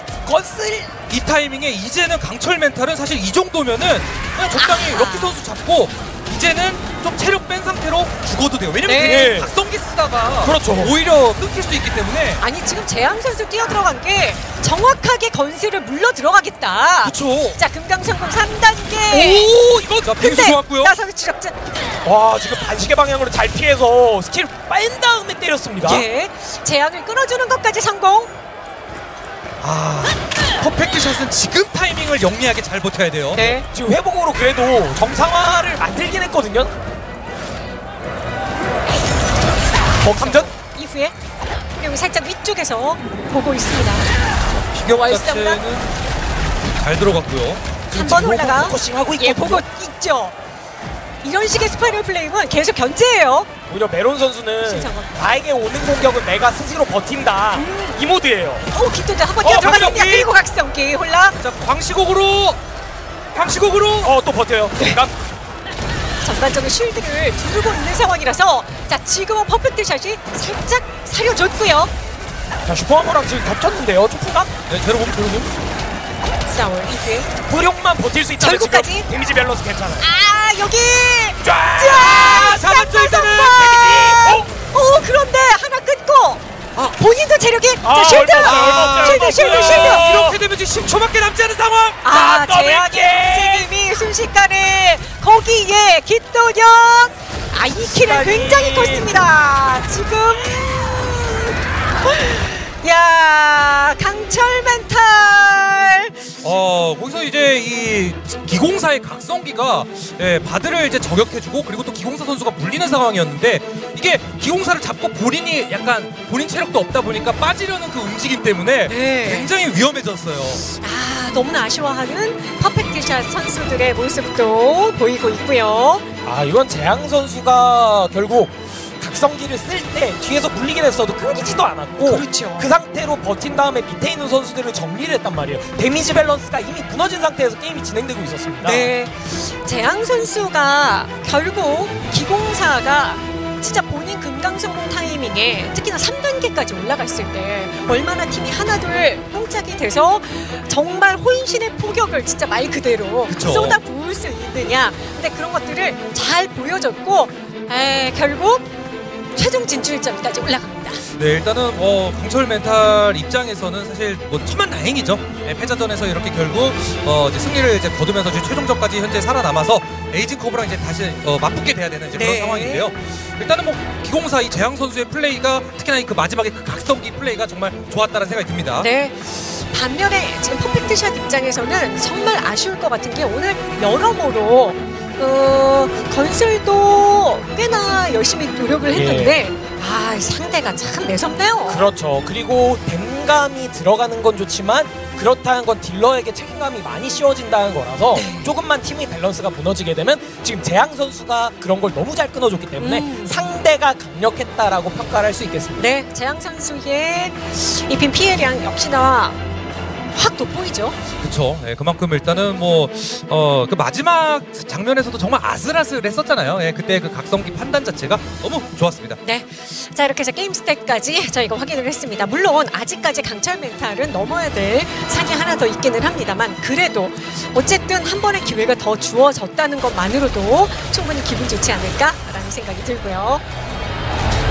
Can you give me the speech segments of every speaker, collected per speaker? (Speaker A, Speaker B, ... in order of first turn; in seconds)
Speaker A: 0.2-1.0, 9.0-9.5, 10.4-10.9, 22.0-26.1, 33.4-36.7, 40.0-40.5, 47.9-49.6, 53.7-58.7, 64.0-65.2, 72.6-74.5, 77.5-80.0, 81.4-82.6, 83.4-84.5, 87.8-90.4, 92.0-93.7, 97.8-99.1, 126.2-138.9, 188.9-189.4, 191.7-205.9
Speaker B: 1.1-12.4, 17.0-17.6, 19.1-20.9, 29.6-33.5, 44.7-45.9, 46.8-47.6, 59.4-60.4, 61.4-62.6, 63.3-64.1, 74.7-75.5, 82.3-83.7, 88.3-92.0, 106.4-120.6, 153.3-153.8, 161.2-178.9, 211.2-219.2
Speaker C: 4.5-5.4, 8.8-9.3, 12.4-19.5, 20.1-21.6, 25.8-28.3, 33.3-33.6, 40.2-41.1, 41.7-44.1, 44.9-45.6, 47.9-50.3, 51.2-53.5, 54.6-55.2, 57.5-58.0, 58.7-61.4, 66.2-71.9, 76.5-77.3, 78.4-79.1, 80.0-86.4, 86.9-90.0, 92.0-106.3, 118.9-119.5, 120.6-126.1, 132.0-132.7, 138.6-158.7, 159.3-161.0, 172.1-172.9, 178.8-191.9, 198.1-198.5, 202.8-203.4, 205.8-209.4, 210.1-210.9, 219.2-233.4